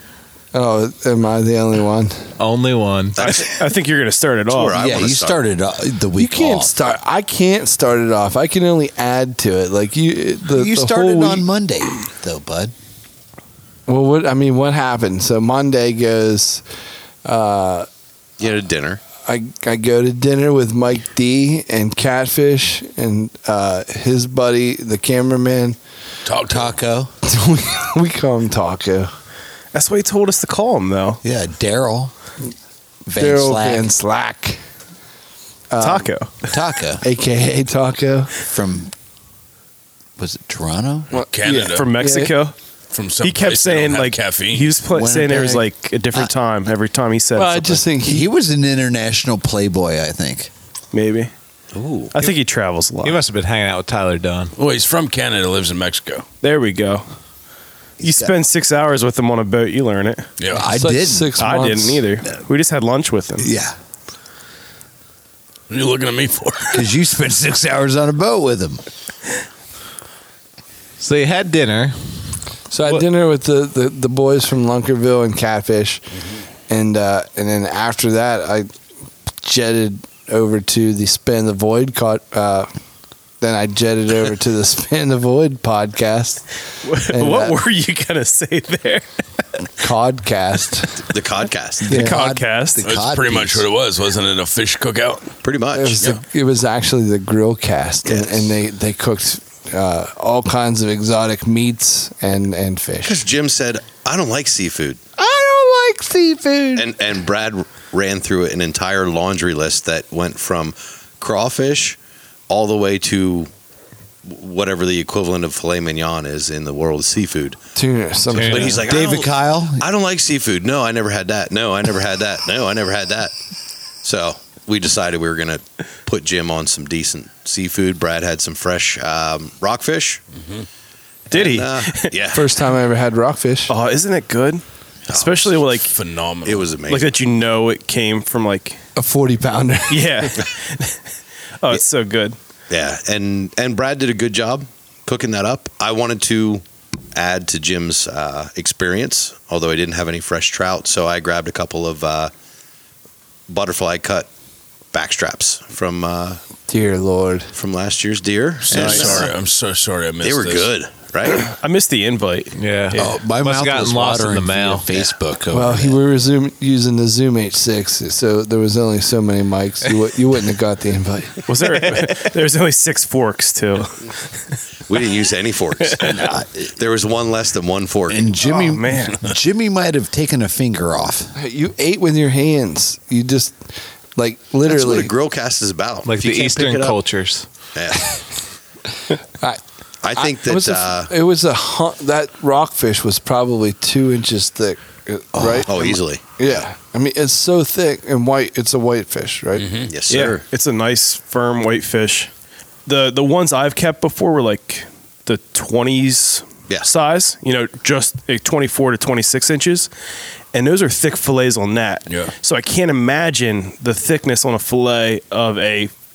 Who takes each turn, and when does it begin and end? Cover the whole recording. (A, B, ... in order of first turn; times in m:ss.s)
0:00.5-0:02.2 A
0:02.4-0:03.5 B
0:03.2-0:03.6 C
0:03.4-0:04.8 D
0:04.5-0:05.4 C
0:04.8-0:06.7 E
0:06.2-0:11.5 A
0:10.5-0:12.7 E
0:13.9-0:16.6 A
0:17.2-0:17.9 A
0:18.4-0:19.0 C
0:19.2-0:25.8 A
0:26.2-0:26.7 F
0:26.5-0:27.1 E
0:27.2-0:29.1 A
0:29.7-0:31.2 D
0:31.2-0:32.1 E
0:33.0-0:33.8 E
0:33.1-0:34.6 A
0:35.7-0:36.1 A
0:35.8-0:36.3 D
0:36.4-0:37.0 E
0:37.0-0:38.3 A
0:38.4-0:38.9 E
0:40.2-0:41.1 E
0:41.1-0:42.3 A
0:41.3-0:41.9 F
0:41.7-0:42.5 D
0:42.9-0:44.7 F
0:43.2-0:47.8 D
0:44.9-0:46.3 E
0:47.3-0:48.3 A
0:48.0-0:50.5 E
0:50.9-0:51.3 D
0:51.7-0:52.2 C
0:52.1-0:53.2 D
0:53.0-0:54.5 B
0:54.6-0:56.2 F
0:56.4-0:57.0 D
0:58.0-1:00.3 D
0:58.0-0:58.3 E
1:00.5-1:01.3 E
1:00.6-1:02.0 A
1:01.4-1:03.5 D
1:03.4-1:03.7 E
1:05.7-1:06.8 F
1:06.7-1:08.8 E
1:11.0-1:12.0 B
1:12.7-1:16.0 A
1:16.7-1:18.7 A
1:19.4-1:22.7 A
1:23.4-1:26.4 A
1:26.8-1:29.1 D
1:27.0-1:27.5 A
1:29.8-1:31.1 A
1:31.1-1:31.9 C
1:31.9-1:32.9 D
1:31.9-1:33.6 E
1:32.8-1:35.3 F
1:35.4-1:36.0 C
1:35.7-1:43.2 A
1:38.0-1:38.4 C
1:43.0-1:45.0 C
1:45.2-1:46.9 A
1:46.7-1:52.0 C
1:52.5-1:53.5 C
1:54.2-1:57.6 C
1:57.7-1:58.8 A
1:58.3-1:58.8 B
1:58.3-2:03.3 C
1:58.5-1:59.9 E
2:04.0-2:10.2 C
2:11.3-2:12.1 D
2:11.3-2:12.5 C
2:12.3-2:13.7 A
2:13.7-2:15.9 D
2:15.1-2:15.6 C
2:15.9-2:16.7 F
2:16.4-2:17.1 C
2:16.9-2:18.8 D
2:19.0-2:20.3 A
2:19.9-2:21.0 D
2:21.6-2:22.4 D
2:22.7-2:32.3 C
2:33.5-2:34.3 C
2:34.9-2:36.4 C
2:36.7-2:37.5 A
2:37.5-2:39.3 C
2:38.7-2:39.3 D
2:38.7-2:40.7 F
2:38.7-2:39.0 A
2:40.2-2:41.5 C
2:41.4-2:43.0 D
2:42.5-2:44.9 B
2:42.9-2:46.0 E
2:45.5-2:51.4 A
2:51.5-2:54.0 D
2:51.8-2:52.3 B
2:54.9-2:58.3 C
2:58.1-3:01.3 E
2:58.4-2:59.2 D
3:01.4-3:05.1 A
3:04.6-3:06.8 C
3:06.0-3:07.4 B
3:07.7-3:08.2 C
3:10.0-3:11.1 C
3:10.1-3:19.7 A
3:15.4-3:15.7 E
3:15.6-3:16.2 C
3:19.6-3:19.9 F
3:19.9-3:20.4 C
3:20.1-3:22.3 D
3:22.8-3:29.9 D
3:30.5-3:35.9 D
3:32.1-3:32.3 F